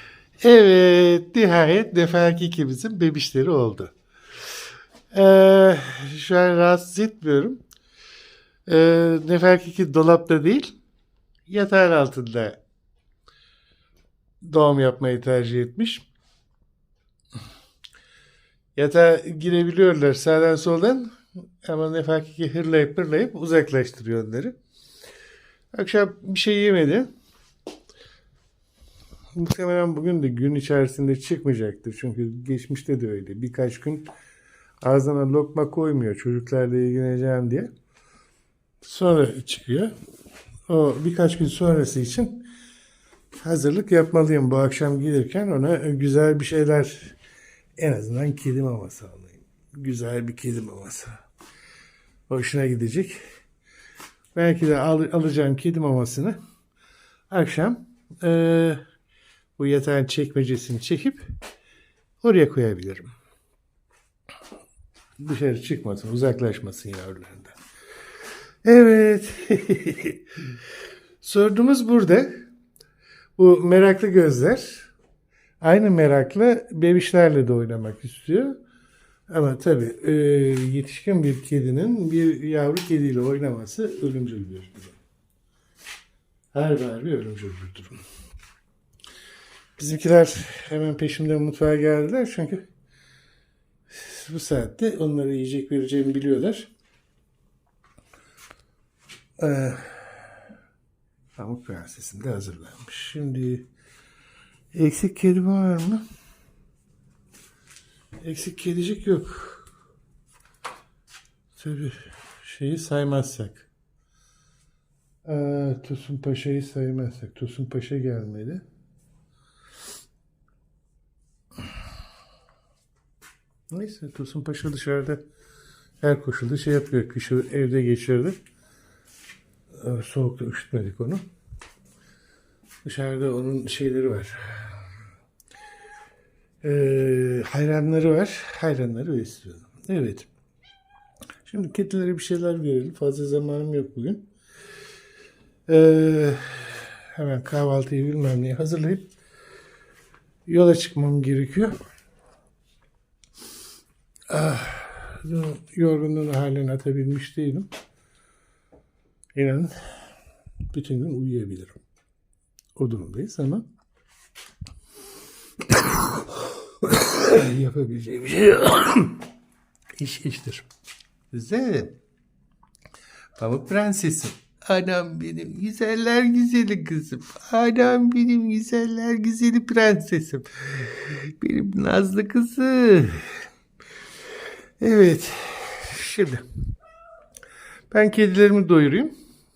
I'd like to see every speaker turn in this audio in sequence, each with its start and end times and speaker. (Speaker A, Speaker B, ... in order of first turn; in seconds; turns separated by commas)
Speaker A: 0.4-3.9, Speaker A: 5.1-7.6, Speaker A: 8.7-10.8, Speaker A: 11.5-12.6, Speaker A: 14.4-16.1, Speaker A: 18.8-24.6, Speaker A: 25.7-27.1, Speaker A: 29.3-34.1, Speaker A: 34.8-37.7, Speaker A: 38.8-39.9, Speaker A: 40.7-42.5, Speaker A: 43.4-47.1, Speaker A: 47.8-51.2, Speaker A: 52.3-53.2, Speaker A: 54.3-56.4, Speaker A: 57.3-58.8, Speaker A: 59.6-61.2, Speaker A: 62.2-63.1, Speaker A: 65.2-67.6, Speaker A: 68.6-70.5, Speaker A: 71.2-72.4, Speaker A: 73.4-74.9, Speaker A: 75.6-78.6, Speaker A: 79.3-85.0, Speaker A: 86.5-88.0, Speaker A: 89.8-92.6, Speaker A: 93.9-96.7, Speaker A: 99.4-100.3, Speaker A: 101.4-103.7, Speaker A: 104.7-106.0, Speaker A: 108.2-109.7, Speaker A: 111.5-113.7, Speaker A: 115.2-118.6, Speaker A: 123.7-125.2, Speaker A: 126.0-128.4, Speaker A: 129.8-131.2, Speaker A: 132.8-134.9, Speaker A: 136.6-140.3, Speaker A: 141.4-144.2, Speaker A: 145.7-149.1, Speaker A: 150.5-151.8, Speaker A: 154.3-157.7, Speaker A: 159.3-159.7, Speaker A: 160.7-161.8, Speaker A: 162.8-163.7, Speaker A: 165.7-166.3, Speaker A: 166.8-169.2, Speaker A: 170.0-170.7, Speaker A: 171.3-172.0, Speaker A: 173.4-183.2, Speaker A: 184.8-186.4, Speaker A: 187.9-189.1